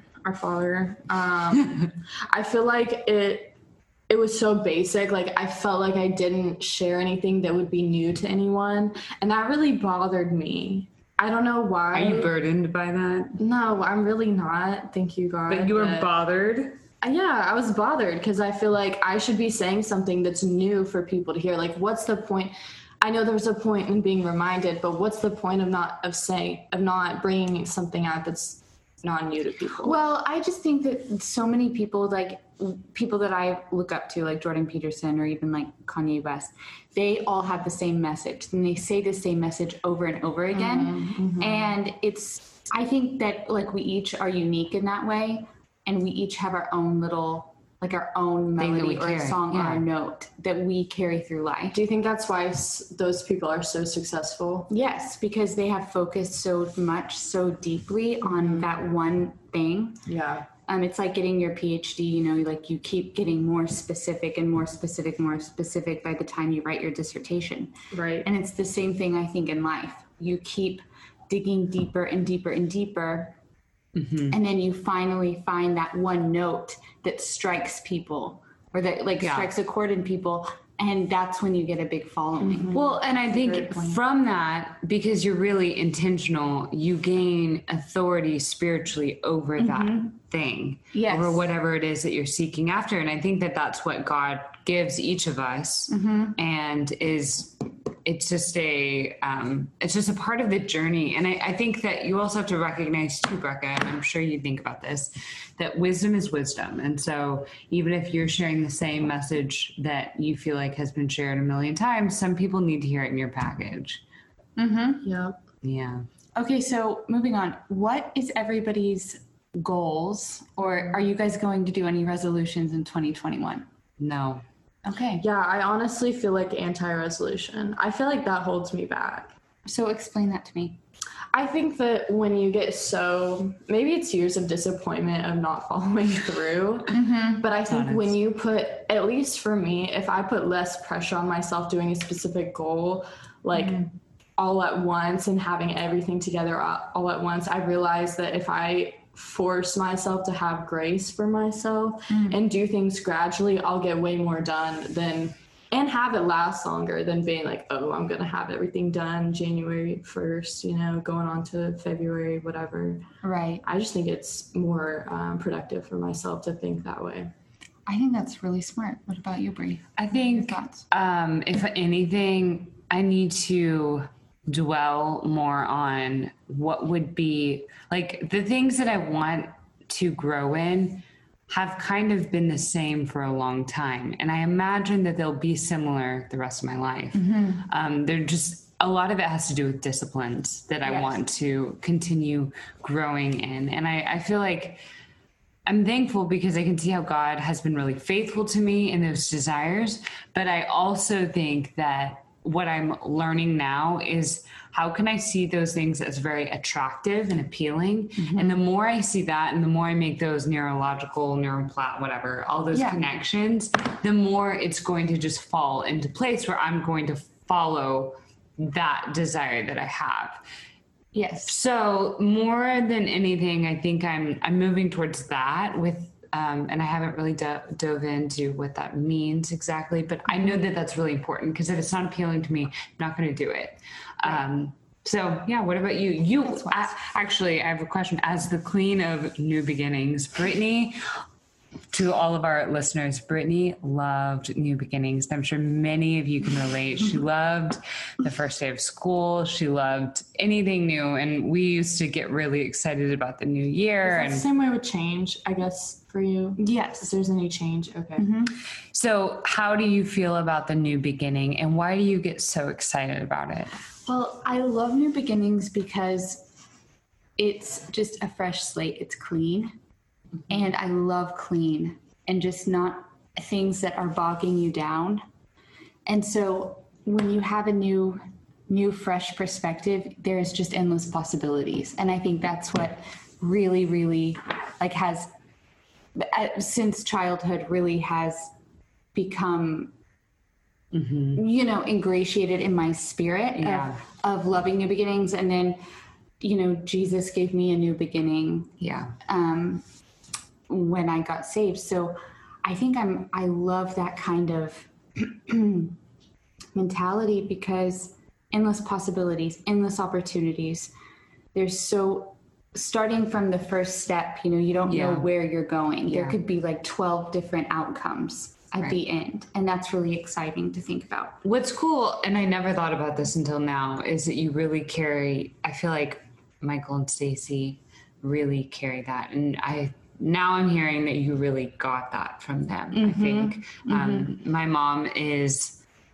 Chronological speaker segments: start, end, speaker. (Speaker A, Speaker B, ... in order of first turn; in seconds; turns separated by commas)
Speaker A: 0.2-3.5, Speaker A: 4.1-12.3, Speaker B: 11.9-13.4, Speaker A: 13.4-16.1, Speaker B: 15.5-16.8, Speaker A: 17.0-30.0, Speaker C: 29.8-51.8, Speaker A: 40.5-41.7, Speaker B: 48.6-49.8, Speaker A: 51.7-54.7, Speaker C: 54.7-60.0, Speaker A: 58.2-58.7, Speaker A: 60.0-60.5, Speaker C: 60.7-73.3, Speaker A: 67.9-68.3, Speaker B: 74.0-74.4, Speaker C: 74.3-82.9, Speaker B: 79.2-79.5, Speaker A: 82.4-84.0, Speaker B: 82.7-114.0, Speaker C: 89.6-90.1, Speaker C: 90.9-91.5, Speaker C: 95.9-96.4, Speaker C: 114.6-115.1, Speaker A: 115.0-115.3, Speaker B: 115.6-116.0, Speaker C: 116.3-123.7, Speaker B: 124.0-124.4, Speaker C: 124.8-125.2, Speaker A: 125.2-129.3, Speaker C: 129.6-130.8, Speaker A: 131.3-163.1, Speaker C: 136.9-137.4, Speaker B: 137.7-138.2, Speaker C: 143.5-143.8, Speaker C: 152.1-152.4, Speaker C: 163.2-163.6, Speaker A: 163.6-167.3, Speaker C: 167.8-170.8, Speaker B: 170.0-194.8, Speaker C: 187.1-187.6, Speaker B: 195.7-220.4, Speaker C: 208.2-208.6, Speaker C: 212.7-213.0, Speaker C: 221.1-221.5, Speaker B: 221.4-241.0, Speaker C: 236.4-236.9, Speaker B: 241.9-254.4, Speaker A: 254.0-258.3, Speaker C: 256.6-257.1, Speaker C: 258.2-258.6, Speaker B: 258.9-263.7, Speaker C: 264.1-266.5, Speaker C: 267.4-269.7, Speaker C: 270.5-275.2, Speaker C: 276.1-285.3, Speaker C: 286.1-288.5, Speaker C: 289.1-289.9, Speaker B: 290.9-291.4, Speaker C: 291.3-295.8, Speaker B: 293.6-294.0, Speaker C: 296.4-299.8, Speaker B: 298.8-299.1, Speaker C: 300.7-305.9, Speaker C: 306.7-310.9, Speaker C: 311.5-321.4, Speaker B: 314.9-315.3, Speaker B: 316.1-316.4, Speaker B: 321.4-335.8, Speaker C: 332.9-334.3